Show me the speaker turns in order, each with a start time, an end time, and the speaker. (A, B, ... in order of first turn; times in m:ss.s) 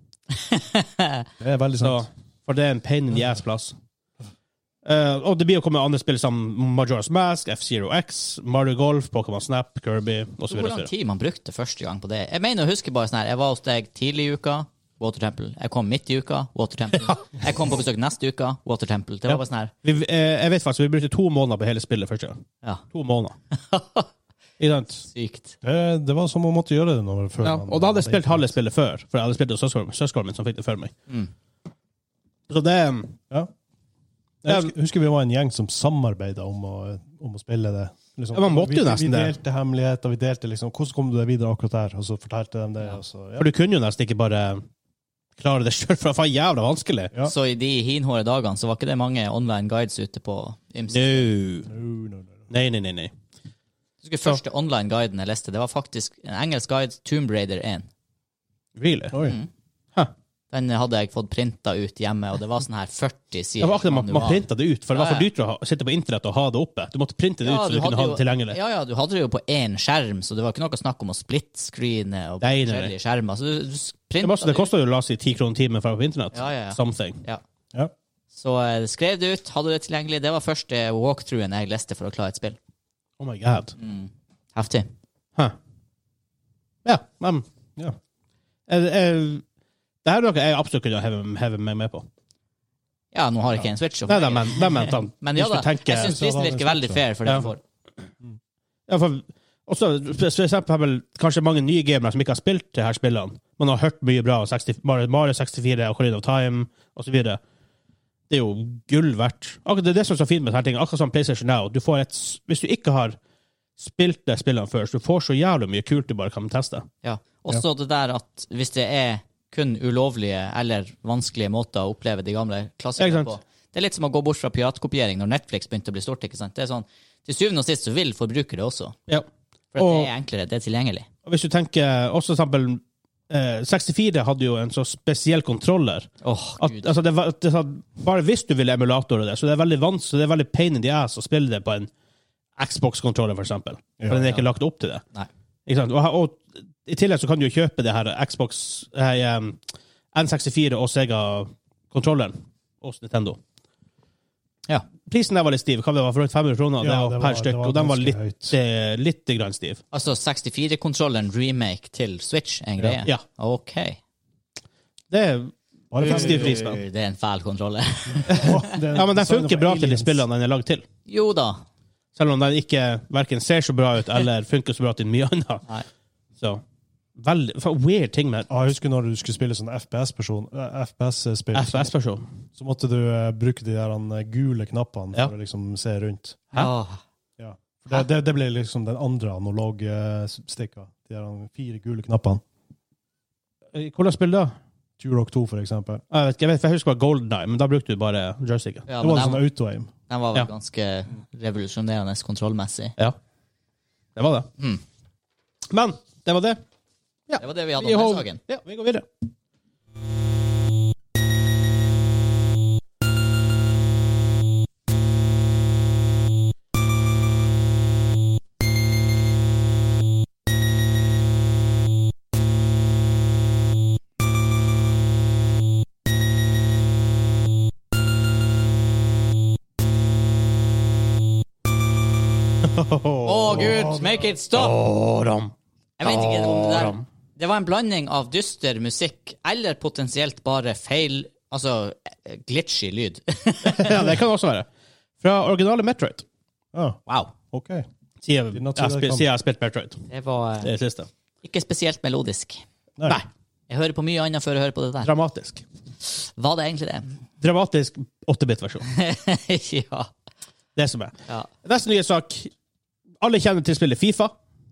0:00.5-0:01.2 A
0:01.4-0:02.0 B
0:01.8-0:03.7 C
0:04.8-0:10.9 C
0:10.5-0:19.7 A
0:19.3-0:22.4 C
0:22.9-0:23.4 C
0:23.5-0:24.1 A
0:24.6-0:25.0 C
0:25.1-0:25.5 A
0:25.6-0:28.5 B
0:27.4-0:30.9 C
0:32.5-0:33.2 C
0:34.4-0:43.5 B
0:38.3-0:39.3 C
0:43.4-0:44.6 C
0:45.4-0:47.1 C
0:47.2-0:51.2 A
0:50.9-0:51.7 C
0:51.7-0:52.5 B
0:52.5-0:53.1 C
0:54.0-0:57.8 A
0:58.8-0:59.2 C
0:59.1-0:59.4 B
0:59.2-0:59.5 A
1:00.5-1:05.3 A
1:03.6-1:08.6 C
1:07.4-1:14.7 A
1:12.4-1:12.9 C
1:14.2-1:17.2 C
1:16.3-1:17.4 A
1:18.3-1:22.6 A
1:23.2-1:23.8 C
1:23.8-1:24.9 A
1:26.8-1:27.4 C
1:28.7-1:29.4 C
1:30.0-1:32.0 C
1:33.1-1:37.6 A
1:34.0-1:36.2 C
1:35.9-1:37.0 B
1:38.9-1:47.4 C
1:48.3-1:53.2 C
1:53.8-1:56.8 C
1:57.0-2:09.0 A
2:03.0-2:03.3 C
2:09.1-2:10.1 C
2:09.7-2:11.1 A
2:11.2-2:21.9 C
2:16.2-2:16.9 A
2:22.6-2:25.0 C
2:24.0-2:24.4 B
2:25.7-2:29.6 C
2:30.1-2:33.4 C
2:35.0-2:39.8 C
2:36.8-2:38.6 B
2:39.9-2:44.0 A
2:45.1-2:46.8 C
2:45.9-2:46.6 B
2:46.0-2:48.8 A
2:48.3-2:50.8 C
2:48.3-2:50.2 B
2:51.1-2:51.6 A
2:52.1-2:55.6 C
2:57.2-2:58.5 C
2:58.5-3:01.9 B
3:01.5-3:02.2 C
3:02.6-3:06.5 B
3:06.5-3:07.0 A
3:07.4-3:12.4 B
3:13.7-3:14.5 C
3:15.0-3:16.0 B
3:16.1-3:18.8 C
3:18.9-3:19.4 A
3:19.0-3:19.9 B
3:20.1-3:22.9 A
3:24.2-3:24.5 C
3:25.7-3:26.6 C
3:27.3-3:29.0 C
3:27.4-3:28.4 A
3:52.6-3:53.9 C
3:53.2-3:54.8 A
3:53.5-3:53.9 B
3:54.5-3:57.0 C
3:56.0-4:04.1 A
4:03.6-4:04.7 C
4:05.2-4:06.2 C
4:06.7-4:07.0 B
4:07.1-4:07.3 A
4:07.5-4:07.8 B
4:08.2-4:10.0 C
4:08.5-4:09.3 B
4:10.1-4:10.7 A
4:10.6-4:11.1 C
4:11.4-4:12.6 A
4:13.7-4:15.1 A
4:15.0-4:15.6 C
4:16.1-4:17.1 A
4:17.4-4:18.8 C
4:18.8-4:20.1 A
4:20.8-4:22.5 C
4:23.2-4:24.3 C